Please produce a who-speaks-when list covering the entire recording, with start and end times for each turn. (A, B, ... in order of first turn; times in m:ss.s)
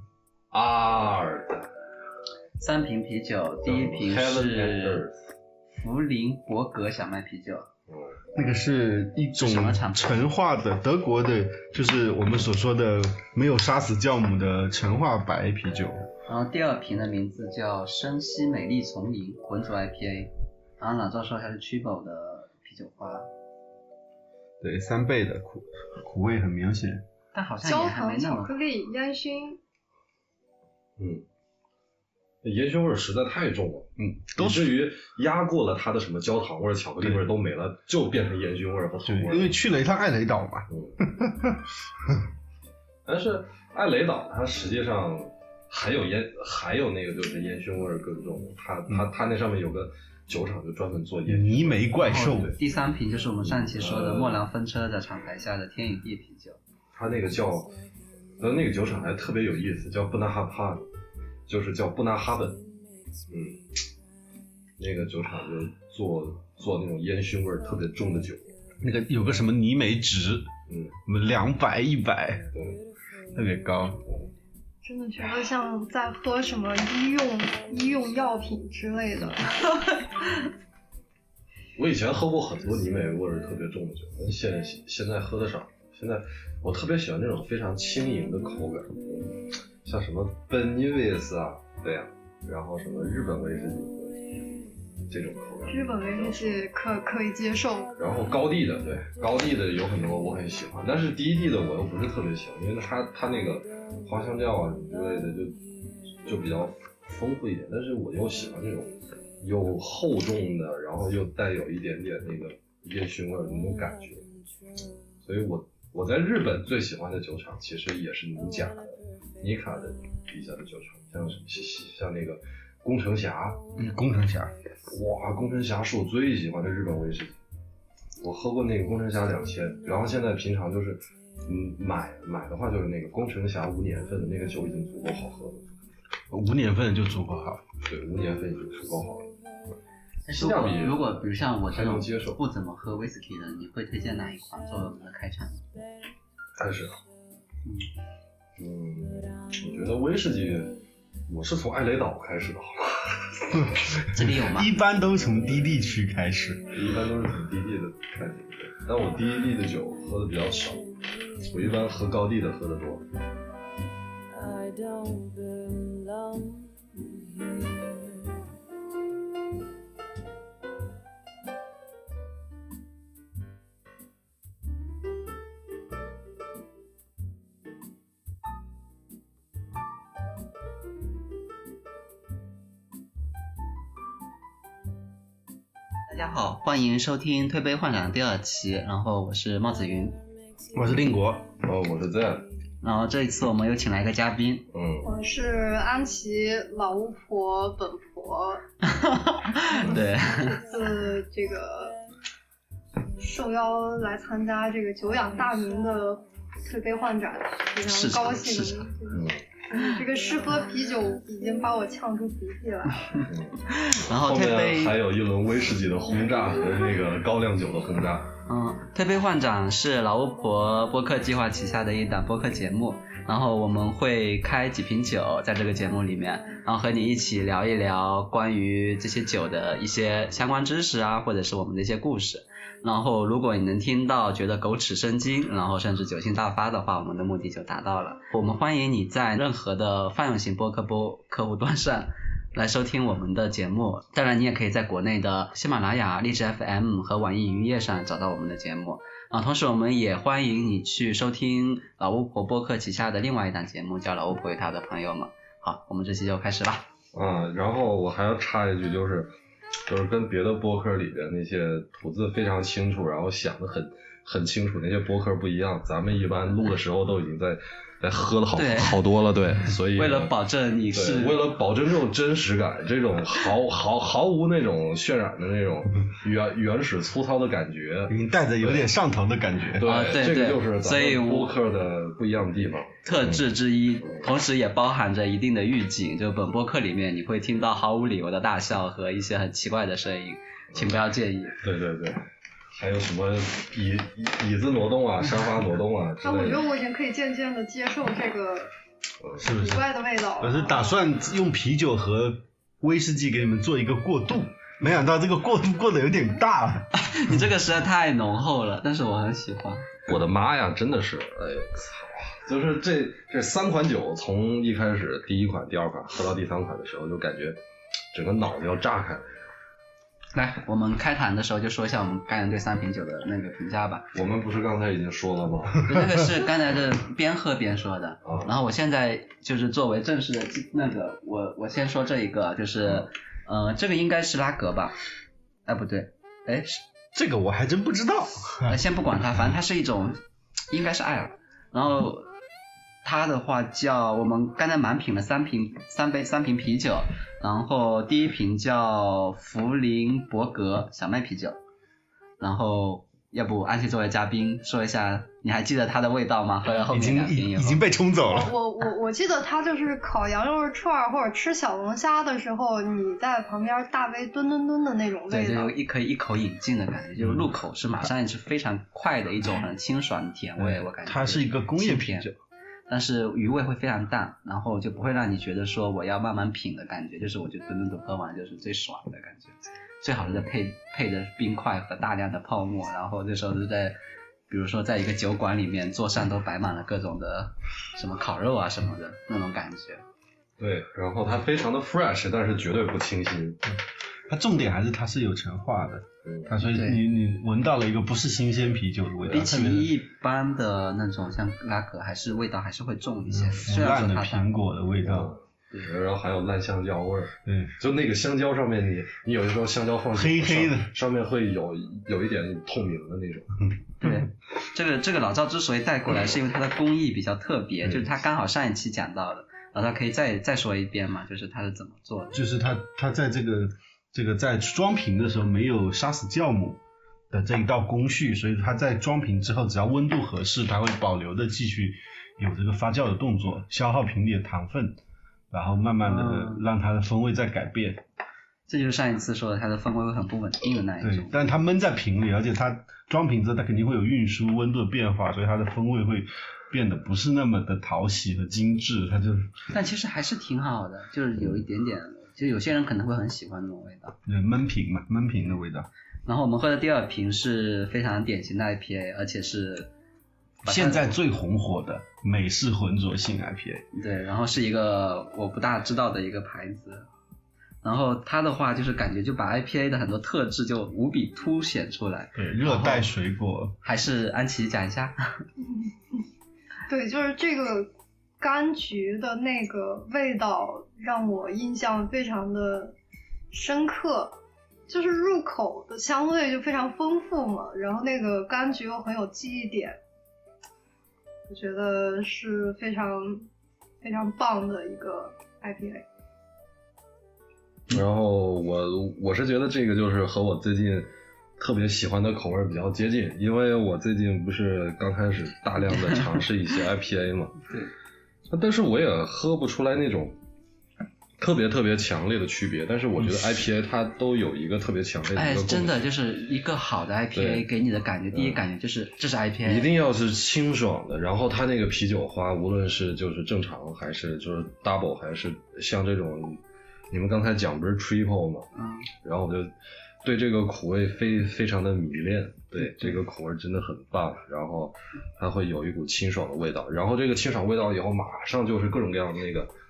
0:00.5-0:01.7 A
0:02.6-0:05.0 B
0:03.7-0:05.2 A
0:05.8-0:07.7 B
0:07.9-0:08.2 A
0:08.3-0:16.1 C
0:09.3-0:10.2 B
0:16.3-0:23.3 B
0:24.6-0:27.0 C
0:27.3-0:28.5 B
0:27.6-0:29.6 D
0:31.0-0:31.2 A
0:32.4-0:39.6 A
0:34.0-0:34.8 C
0:39.0-0:42.2 C
0:40.7-0:41.2 A
0:43.0-0:52.6 A
0:51.2-0:52.5 C
0:52.0-0:56.6 B
0:53.4-0:54.4 A
0:56.9-0:57.7 A
0:58.4-1:00.8 A
1:01.5-1:02.6 A
1:03.3-1:03.6 A
1:04.8-1:08.6 A
1:08.8-1:10.5 C
1:10.7-1:10.9 A
1:11.0-1:12.5 C
1:12.5-1:12.8 A
1:13.3-1:14.0 C
1:13.8-1:14.3 A
1:14.8-1:19.8 D
1:19.1-1:19.4 A
1:21.8-1:34.4 A
1:35.1-1:36.6 A
1:35.7-1:37.9 D
1:38.0-1:54.2 A
1:55.2-2:03.6 A
2:03.8-2:04.5 C
2:04.9-2:07.3 A
2:08.2-2:15.7 A
2:16.3-2:17.6 C
2:17.8-2:19.3 A
2:20.2-2:25.6 B
2:20.3-2:22.4 A
2:26.6-2:27.0 A
2:28.6-2:30.8 A
2:31.3-2:33.9 A
2:33.6-2:36.7 C
2:34.1-2:34.8 B
2:36.7-2:43.0 A
3:06.1-3:10.2 B
3:10.7-3:11.5 C
3:11.6-3:12.5 A
3:12.8-3:14.6 B
3:14.7-3:15.1 A
3:15.0-3:18.6 D
3:18.8-3:20.6 B
3:19.8-3:22.0 D
3:23.2-3:33.2 D
3:27.8-3:28.9 B
3:29.1-3:29.4 A
3:33.1-3:35.0 B
3:33.3-3:33.5 A
3:34.1-3:38.3 A
3:38.4-4:16.8 B
4:17.1-4:19.3 A
4:19.9-4:30.3 A
4:28.5-4:29.0 B
4:29.9-4:31.4 B
4:30.9-4:38.9 A
4:38.1-4:39.9 C
4:39.8-4:43.4 A
4:39.8-4:41.5 B
4:43.0-4:51.6 B
4:51.6-4:56.7 A
4:56.2-4:58.7 D
4:59.4-4:59.8 C
4:59.4-5:01.0 D
5:00.4-5:07.4 C
5:06.9-5:09.9 B
5:10.0-5:17.6 A
5:18.1-5:19.4 A
5:20.3-5:24.0 B
5:24.1-5:25.9 A
5:25.8-5:35.0 B
5:28.2-5:28.5 A
5:35.6-5:36.8 B
5:37.1-5:38.8 C
5:38.6-5:40.2 B
5:40.7-5:42.3 B
5:43.0-5:51.6 B
5:52.4-5:57.8 B
5:56.9-5:58.5 C
5:58.3-6:05.8 D
6:05.3-6:12.3 B
6:07.2-6:07.5 C
6:10.6-6:12.4 C
6:12.9-6:24.0 B
6:24.5-6:30.0 B
6:30.6-6:33.6 A
6:34.3-6:39.9 C
6:36.2-6:36.5 A
6:36.6-6:37.0 B
6:39.2-6:44.5 B
6:43.3-6:45.3 C
6:45.0-6:53.7 A
6:47.4-6:47.8 C
6:50.1-6:50.9 C
6:54.0-7:02.3 B
7:02.3-7:06.8 C
7:07.3-7:15.0 C
7:15.5-7:18.0 C
7:16.0-7:16.6 B
7:18.7-7:21.4 B
7:21.0-7:29.5 C
7:29.7-7:34.2 B
7:34.2-7:35.9 C
7:36.2-7:39.9 B
7:40.6-7:43.8 C
7:40.6-7:41.1 B
7:43.9-7:47.1 B
7:47.8-7:53.1 B
7:52.3-7:53.8 C
7:53.8-7:55.4 B
7:55.6-7:55.9 D
7:56.9-8:03.0 D
8:03.5-8:04.4 D
8:04.9-8:10.0 D
8:11.5-8:13.5 D
8:14.0-8:16.0 D
8:17.9-8:27.5 A
8:28.5-8:30.4 A
8:31.4-8:36.1 A
8:35.3-8:39.9 B
8:37.3-8:37.6 A
8:38.3-8:38.6 A
8:39.6-8:48.7 A
8:48.8-8:49.1 B
8:49.2-8:59.7 A
8:52.8-8:53.1 B